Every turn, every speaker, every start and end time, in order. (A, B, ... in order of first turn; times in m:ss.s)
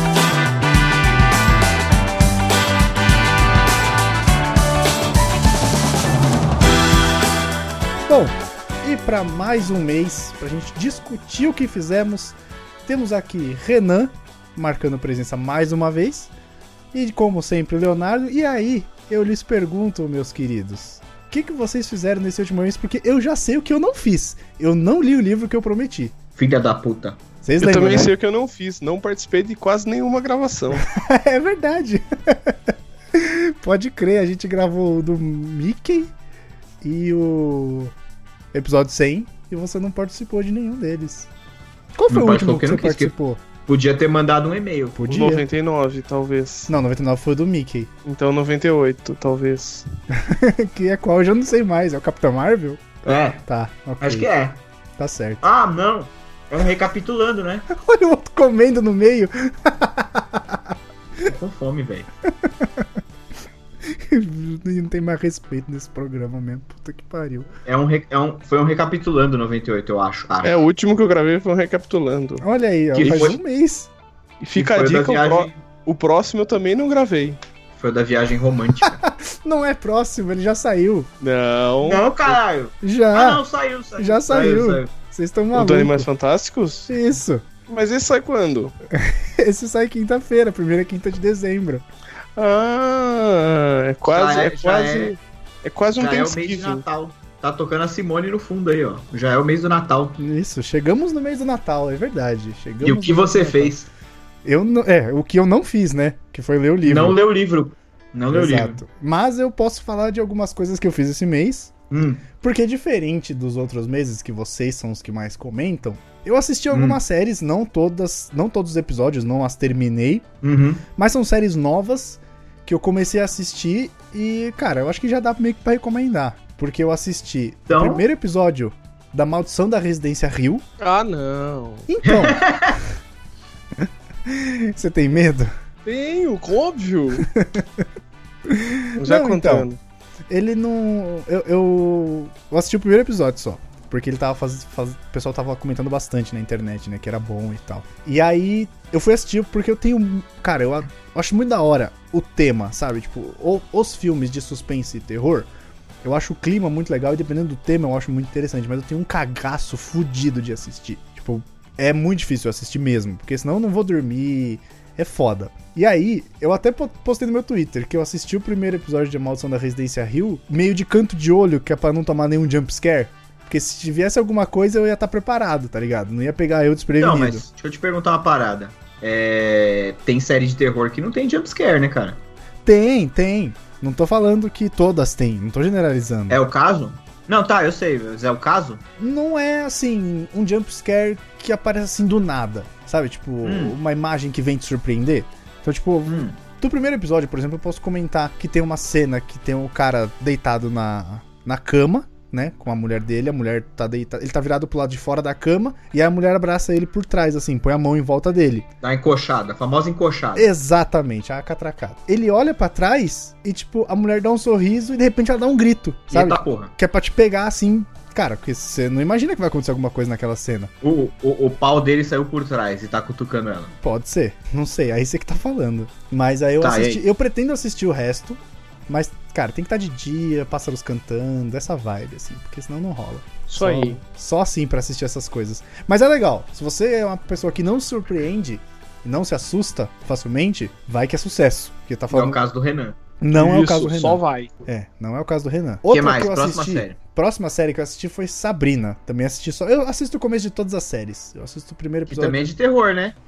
0:08.1-0:16.3 A
0:16.9-0:26.1 A
0:26.4-0:27.2 B
0:27.4-0:28.1 A
0:27.6-0:30.8 C
0:30.9-0:32.6 A
0:33.1-0:36.1 A
0:36.8-0:37.9 A
0:38.5-0:41.3 A
0:42.0-0:43.4 A
0:42.1-0:43.1 B
0:43.7-0:45.0 B
0:45.0-0:45.5 A
0:45.1-0:46.7 C
0:46.7-0:47.9 A
0:48.0-0:49.8 C
0:50.2-0:52.8 A
0:53.0-0:53.4 B
0:53.5-0:54.3 A
0:54.0-0:54.6 B
0:55.0-0:55.4 A
0:55.4-0:57.7 B
0:57.7-1:00.7 A
1:01.3-1:02.1 B
1:02.4-1:02.9 A
1:03.9-1:07.5 A
1:07.7-1:10.6 B
1:10.4-1:13.3 C
1:12.4-1:13.9 A
1:13.0-1:13.4 B
1:14.4-1:17.4 C
1:14.5-1:15.6 B
1:17.8-1:19.0 B
1:18.8-1:21.1 A
1:21.2-1:22.4 C
1:21.8-1:24.9 B
1:22.8-1:23.4 A
1:24.0-1:26.1 A
1:25.5-1:26.9 C
1:26.9-1:27.4 A
1:27.7-1:28.8 C
1:28.9-1:31.8 A
1:32.4-1:36.8 C
1:34.1-1:35.1 B
1:36.0-1:40.2 B
1:40.2-1:43.7 A
1:42.8-1:43.9 B
1:44.4-1:47.2 A
1:46.8-1:48.8 B
1:48.3-1:51.7 A
1:51.9-1:52.2 B
1:52.4-2:00.2 A
1:56.7-1:57.0 B
2:00.4-2:00.8 B
2:01.0-2:10.6 A
2:07.7-2:08.0 B
2:10.8-2:11.9 C
2:11.9-2:12.4 A
2:12.0-2:12.8 B
2:13.8-2:15.5 A
2:15.8-2:17.2 C
2:17.3-2:17.8 A
2:18.5-2:19.7 A
2:19.0-2:19.8 C
2:20.3-2:35.5 A
2:36.0-2:57.4 A
2:57.0-3:02.2 B
3:02.6-3:06.4 A
3:06.3-3:08.8 B
3:09.0-3:28.7 A
3:13.4-3:13.8 B
3:16.1-3:16.4 B
3:28.8-3:30.5 B
3:30.4-3:40.7 A
3:36.1-3:36.7 B
3:40.8-3:43.7 B
3:43.8-4:02.4 A
3:46.6-3:47.0 B
3:53.5-3:54.0 C
4:02.1-4:03.0 B
4:03.2-4:12.5 A
4:03.3-4:04.5 C
4:05.9-4:07.0 B
4:12.1-4:13.2 B